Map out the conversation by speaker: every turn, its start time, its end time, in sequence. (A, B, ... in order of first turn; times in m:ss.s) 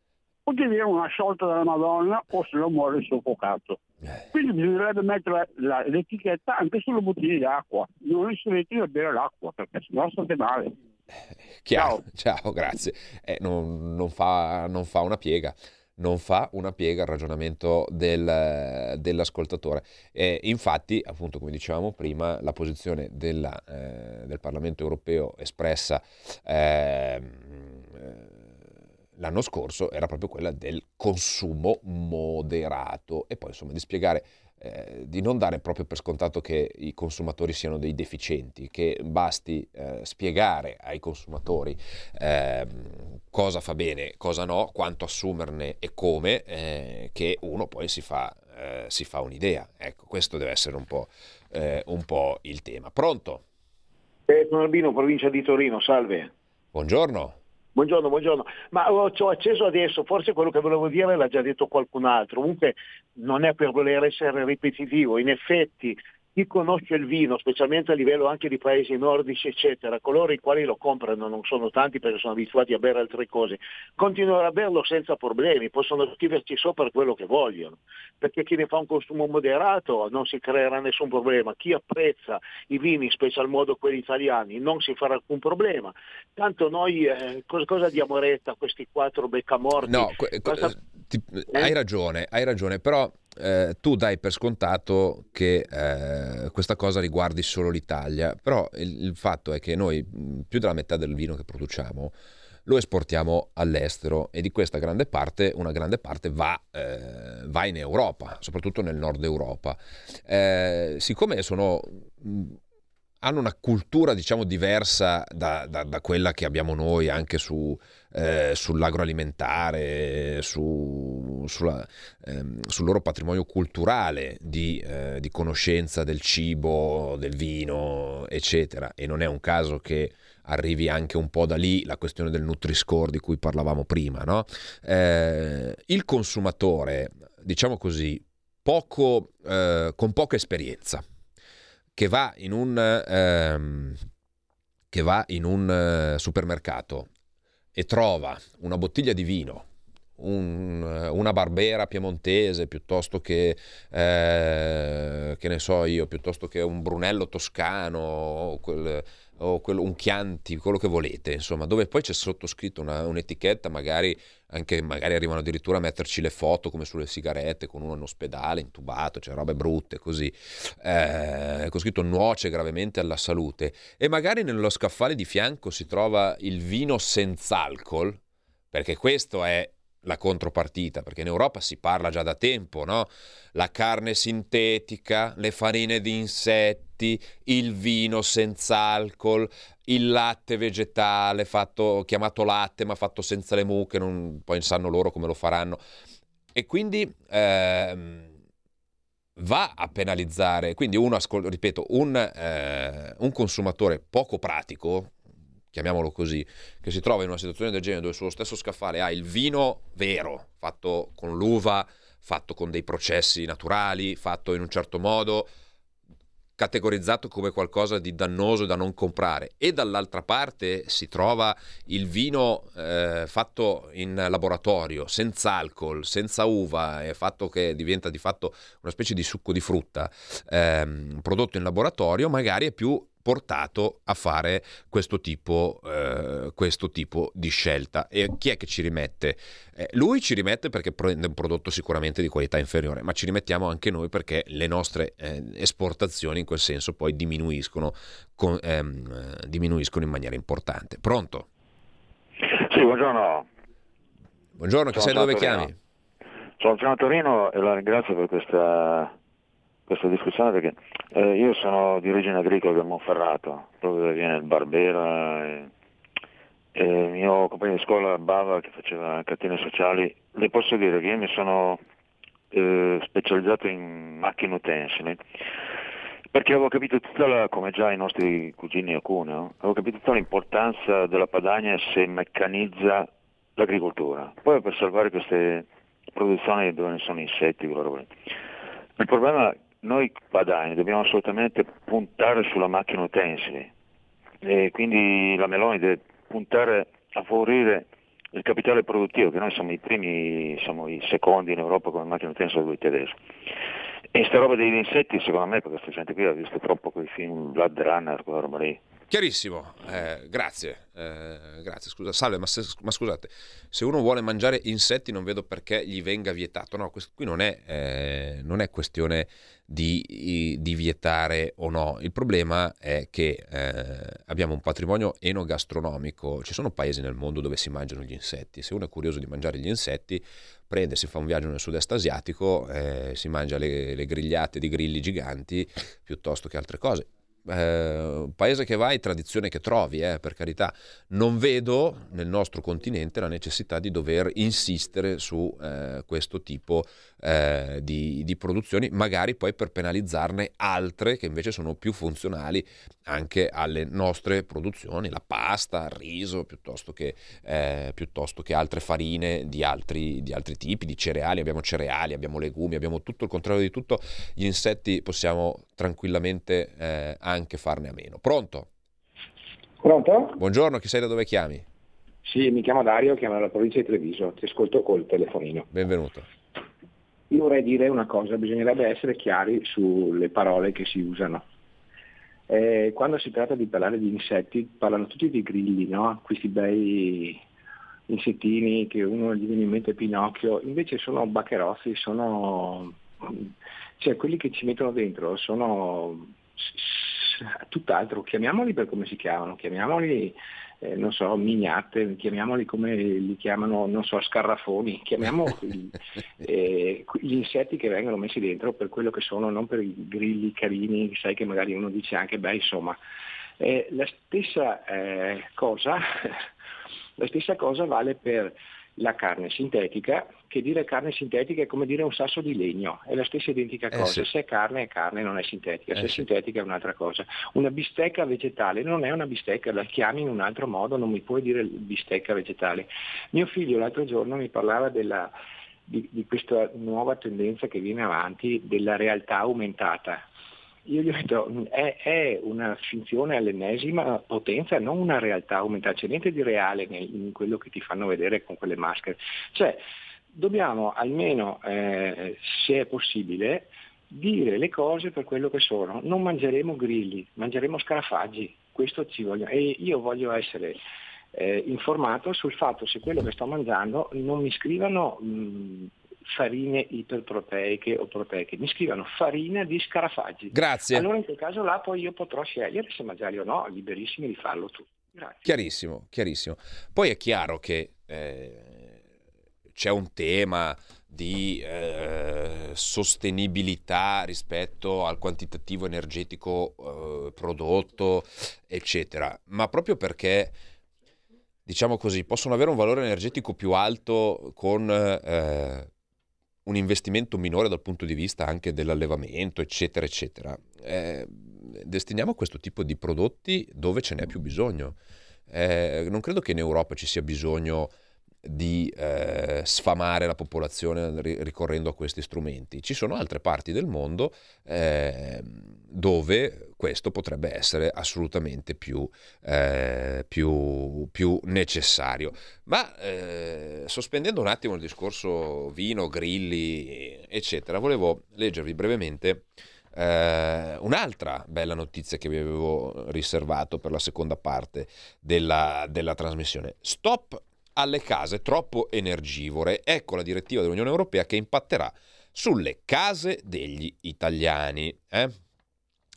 0:00.4-0:03.8 A
0:04.3-0:10.7 A
0:11.6-0:28.6 B
0:11.7-0:12.0 A
0:29.2-0:53.4 B
0:54.3-0:56.3 C
0:56.7-0:57.4 B
0:57.7-1:30.7 C
1:29.8-1:42.1 B
1:42.6-1:52.6 B
1:53.2-2:21.0 B
2:22.0-2:24.0 B
2:24.9-2:27.1 B
2:27.7-2:29.7 B
2:30.2-2:58.2 B
2:58.7-3:15.8 B
3:16.5-3:18.3 B
3:19.4-3:25.1 B
3:25.7-3:35.5 B
3:36.6-4:11.5 B
4:12.5-4:13.5 D
4:14.6-4:15.8 B
4:14.9-4:15.7 D
4:16.6-4:19.1 D
4:19.9-4:25.7 D
4:26.7-4:31.8 D
4:32.5-4:35.2 D
4:36.3-4:48.1 D
4:49.0-4:53.7 D
4:54.4-5:03.1 D
5:04.1-5:08.8 D
5:09.1-6:08.7 B
6:09.8-6:10.4 E
6:10.4-6:11.6 B
6:12.2-6:15.7 E
6:15.7-6:16.3 B
6:17.3-6:21.4 E
6:22.5-6:27.4 E
6:28.1-6:53.0 E
6:53.6-6:56.4 E
6:57.2-7:15.3 E
7:03.9-7:04.2 B
7:15.9-7:20.2 E
7:20.8-7:40.8 E
7:41.3-7:55.4 E
7:50.5-7:51.1 B
7:55.4-7:59.0 B
7:59.7-8:10.6 B
8:11.6-8:15.9 B
8:16.6-8:25.0 B
8:25.5-8:27.9 B
8:28.4-9:05.4 B